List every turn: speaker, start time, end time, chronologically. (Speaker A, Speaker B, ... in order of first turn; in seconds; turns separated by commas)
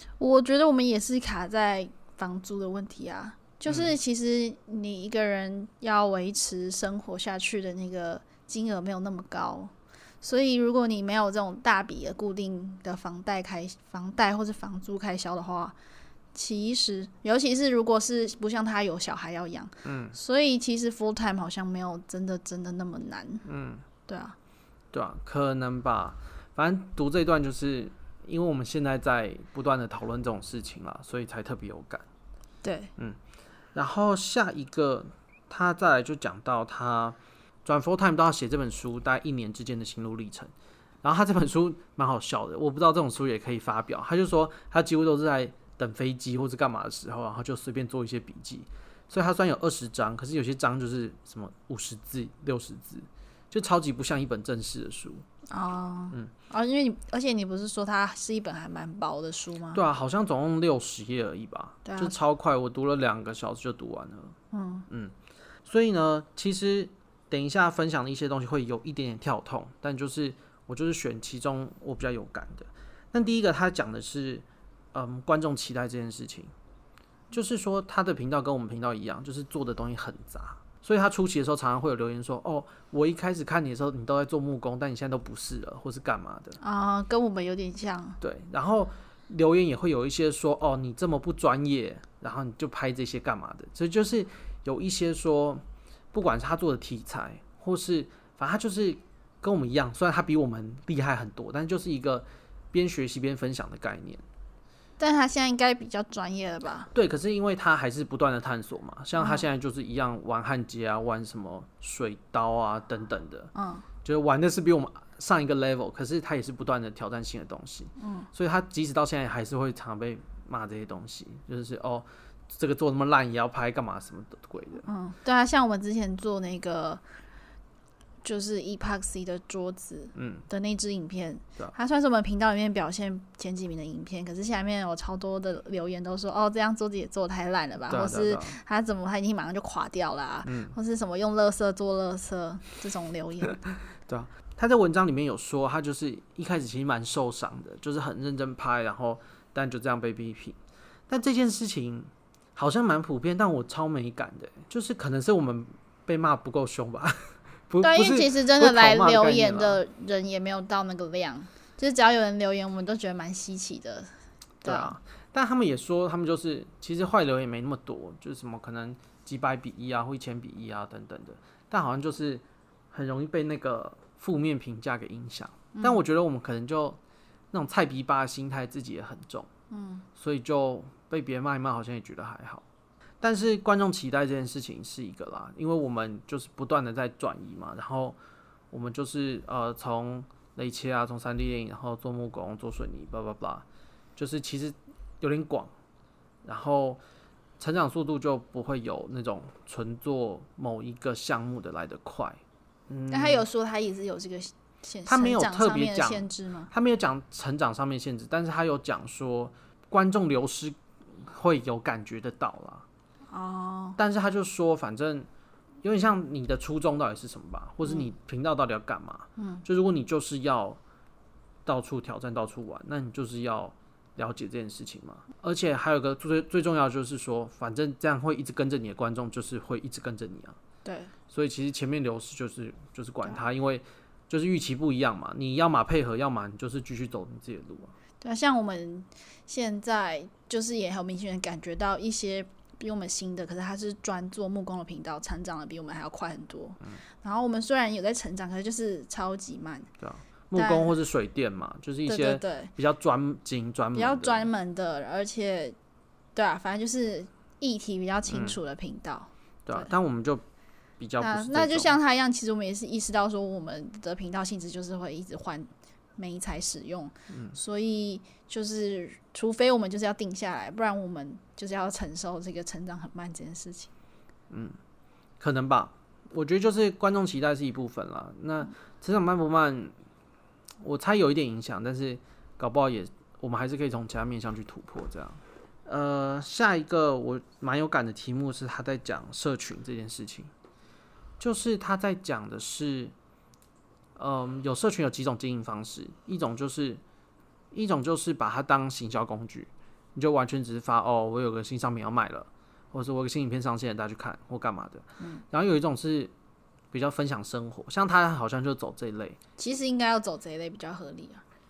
Speaker A: 0.2-15.8, Speaker A: 16.3-23.4, Speaker B: 19.8-20.2, Speaker B: 23.4-23.8, Speaker A: 24.1-24.4, Speaker B: 24.9-32.0, Speaker A: 32.6-32.9, Speaker B: 33.7-40.5, Speaker B: 41.0-55.2, Speaker A: 55.5-59.8, Speaker B: 59.7-64.3, Speaker A: 61.8-62.1, Speaker A: 64.5-64.9, Speaker B: 65.6-76.5, Speaker B: 77.3-86.6, Speaker A: 86.6-88.2, Speaker B: 88.2-104.2, Speaker A: 105.0-106.9, Speaker B: 106.9-113.5, Speaker A: 109.2-109.5, Speaker A: 113.5-113.9, Speaker B: 114.0-124.8, Speaker A: 118.0-118.3, Speaker A: 124.8-127.0, Speaker A: 128.2-143.6, Speaker B: 130.1-130.4, Speaker B: 137.9-138.6, Speaker B: 140.4-140.7, Speaker B: 144.0-150.6, Speaker B: 151.1-159.8, Speaker A: 157.8-164.1, Speaker A: 164.6-164.9, Speaker B: 164.6-177.0, Speaker A: 175.7-176.0, Speaker B: 177.5-179.5, Speaker A: 179.7-180.1, Speaker B: 180.2-182.6, Speaker B: 183.2-188.2, Speaker B: 188.7-193.6, Speaker B: 194.2-195.7, Speaker B: 196.4-197.0, Speaker B: 197.6-203.4, Speaker A: 203.1-206.7, Speaker B: 205.1-212.8, Speaker A: 213.3-214.0, Speaker B: 214.0-215.3, Speaker B: 215.8-220.8, Speaker A: 217.8-218.1, Speaker A: 219.4-219.6, Speaker B: 221.7-230.6, Speaker A: 230.8-231.1, Speaker B: 231.3-237.9, Speaker A: 238.2-249.9, Speaker B: 250.0-254.5, Speaker A: 250.5-250.9, Speaker A: 252.1-252.7, Speaker A: 253.9-255.8, Speaker A: 256.3-259.9, Speaker B: 258.3-258.6, Speaker B: 259.6-260.4, Speaker B: 261.0-261.9, Speaker A: 261.2-273.9, Speaker B: 267.3-267.6, Speaker B: 274.5-274.8, Speaker B: 275.4-279.9, Speaker B: 280.8-290.5, Speaker B: 291.4-293.1, Speaker B: 294.1-297.0, Speaker B: 297.7-306.3, Speaker B: 306.9-309.4, Speaker A: 309.6-311.4